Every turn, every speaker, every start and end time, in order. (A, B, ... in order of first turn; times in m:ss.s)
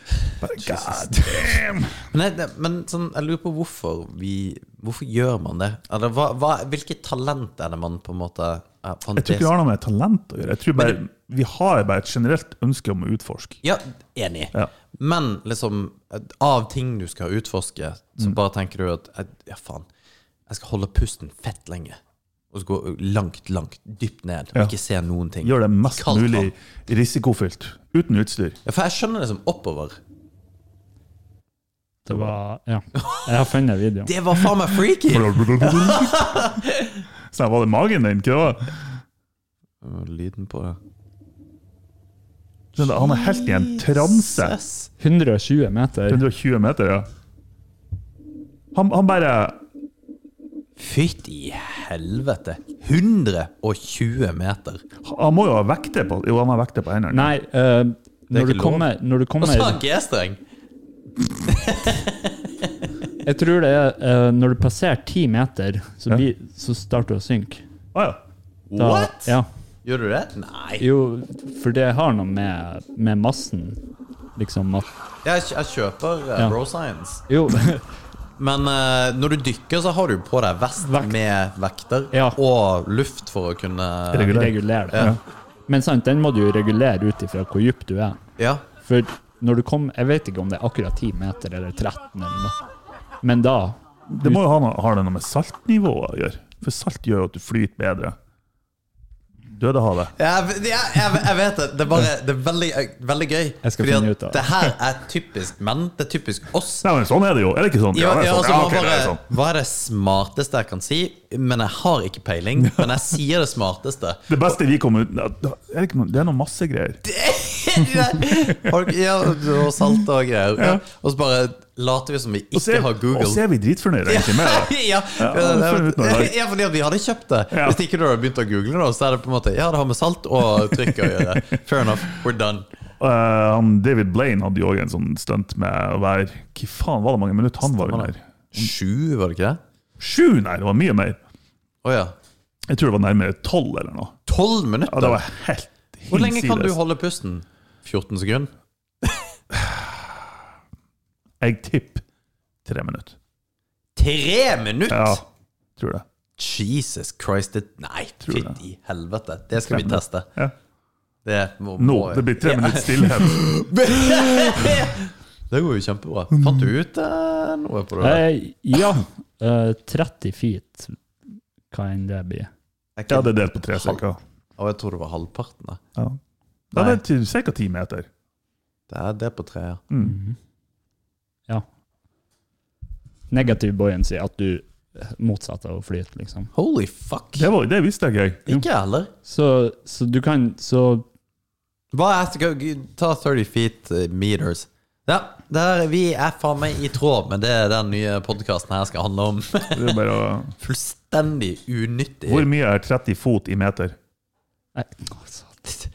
0:00.4-0:02.0 A
0:00.6-0:01.6 B
0:02.1-0:09.5 B
0:09.1-0:13.6 A
0:13.6-0:19.9 B
0:20.5-0:22.0 B
0:22.5-0:26.5 B
0:25.4-0:28.6 A
0:28.6-0:30.0 B
0:32.1-0:32.4 A
0:32.1-0:34.1 C
0:32.9-0:33.3 B
0:34.0-0:37.0 B
0:35.1-0:36.5 A
0:37.3-0:38.8 A
0:39.8-0:40.8 B
0:42.7-0:44.6 A
0:42.8-0:44.9 B
0:45.0-0:46.2 C
0:46.1-0:47.1 A
0:48.7-0:49.6 A
0:50.8-0:54.8 B
0:55.0-0:57.3 A
0:57.1-0:59.8 C
0:58.3-0:58.9 B
0:59.4-1:00.4 B
1:01.4-1:02.7 B
1:03.2-1:07.6 C
1:07.9-1:08.2 A
1:08.7-1:09.3 B
1:08.8-1:09.5 C
1:09.8-1:10.8 B
1:10.8-1:13.8 C
1:14.4-1:14.9 C
1:15.2-1:17.2 B
1:17.3-1:17.8 C
1:18.4-1:25.1 B
1:20.8-1:21.1 C
1:22.1-1:22.4 C
1:24.1-1:25.2 A
1:24.2-1:25.2 C
1:25.7-1:28.2 C
1:28.4-1:28.6 B
1:28.8-1:32.5 C
1:33.2-1:34.4 C
1:34.1-1:38.2 A
1:39.6-1:40.1 A
1:40.2-1:46.9 B
1:43.6-1:44.5 C
1:46.8-1:49.2 A
1:47.9-1:54.6 B
1:54.3-1:57.0 A
1:57.0-2:03.4 B
2:02.5-2:06.3 A
2:04.0-2:12.6 B
2:07.5-2:07.8 A
2:10.9-2:11.4 A
2:13.0-2:18.7 A
2:17.6-2:19.6 B
2:20.0-2:21.2 A
2:21.8-2:22.1 B
2:22.7-2:24.2 A
2:24.3-2:25.2 B
2:24.8-2:26.8 A
2:26.1-2:28.5 B
2:29.0-2:29.3 B
2:29.5-2:30.1 A
2:31.4-2:32.0 A
2:32.6-2:33.2 A
2:34.0-2:35.2 B
2:34.9-2:35.2 A
2:35.8-2:36.0 A
2:36.4-2:40.3 B
2:38.2-2:38.6 A
2:39.6-2:40.5 A
2:41.2-2:48.2 B
2:41.8-2:44.6 A
2:48.0-2:51.0 C
2:51.7-2:52.5 C
2:53.0-2:54.0 B
2:53.1-2:54.2 A
2:54.6-2:55.8 B
2:56.7-2:58.1 A
2:56.7-2:57.0 B
2:58.9-2:59.8 B
2:59.9-3:00.2 A
3:00.0-3:00.3 C
3:03.3-3:06.5 C
3:06.5-3:07.5 B
3:07.4-3:08.4 A
3:08.4-3:09.1 B
3:09.2-3:11.0 C
3:11.9-3:20.0 B
3:19.7-3:20.5 A
3:20.6-3:22.5 B
3:22.3-3:24.0 A
3:24.8-3:25.8 C